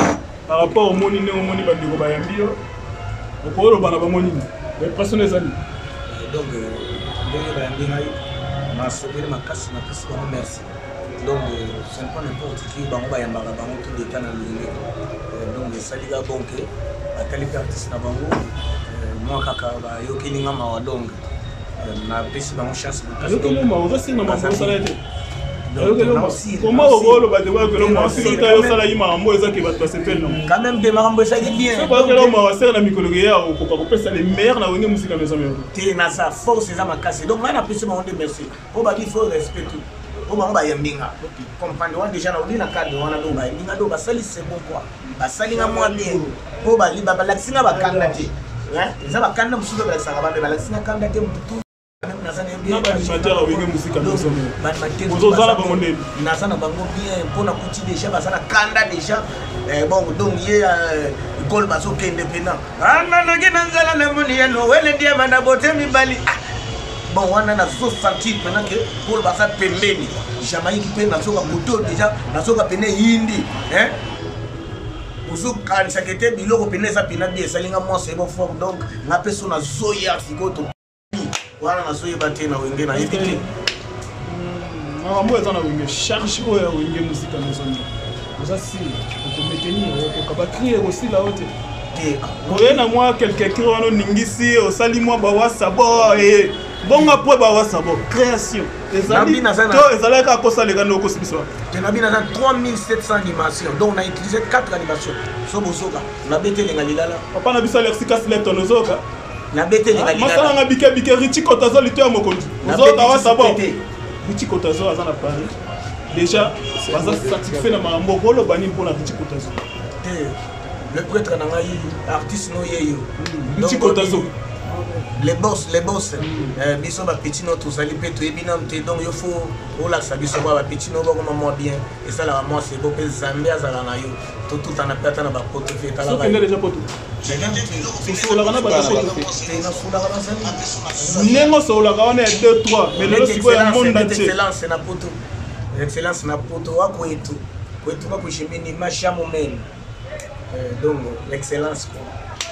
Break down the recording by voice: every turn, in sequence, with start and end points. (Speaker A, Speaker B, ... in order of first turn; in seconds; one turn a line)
Speaker A: 0.5-2.6
Speaker A: 3.4-5.6
Speaker B: 6.1-8.2
Speaker B: 8.7-10.7
Speaker B: 11.2-21.2
Speaker B: 21.8-23.7
Speaker A: 23.2-25.0
Speaker B: 24.2-24.8
Speaker B: 25.7-28.9
Speaker A: 25.8-30.4
Speaker B: 30.3-32.4
Speaker A: 31.7-35.7
Speaker B: 35.7-66.4
Speaker A: 45.5-46.3
Speaker A: 47.7-48.1
Speaker A: 52.7-54.6
Speaker A: 55.1-56.1
Speaker B: 67.1-74.0
Speaker B: 75.2-83.5
Speaker A: 82.9-83.4
Speaker A: 84.2-91.5
Speaker B: 91.9-92.8
Speaker A: 92.5-101.5
Speaker B: 99.0-99.9
Speaker B: 101.7-107.2
Speaker A: 107.3-109.0
Speaker B: 109.5-110.6
Speaker A: 109.9-113.6
Speaker B: 112.6-113.8
Speaker A: 114.2-115.5
Speaker A: 116.1-119.6
Speaker B: 120.0-124.3
Speaker A: 123.2-124.3
Speaker B: 125.2-136.4
Speaker A: 126.2-126.6
Speaker A: 136.0-136.9
Speaker B: 137.2-141.5
Speaker A: 137.8-139.3
Speaker A: 141.0-144.3
Speaker B: 142.9-145.2
Speaker B: 145.7-149.7
Speaker B: 150.5-152.2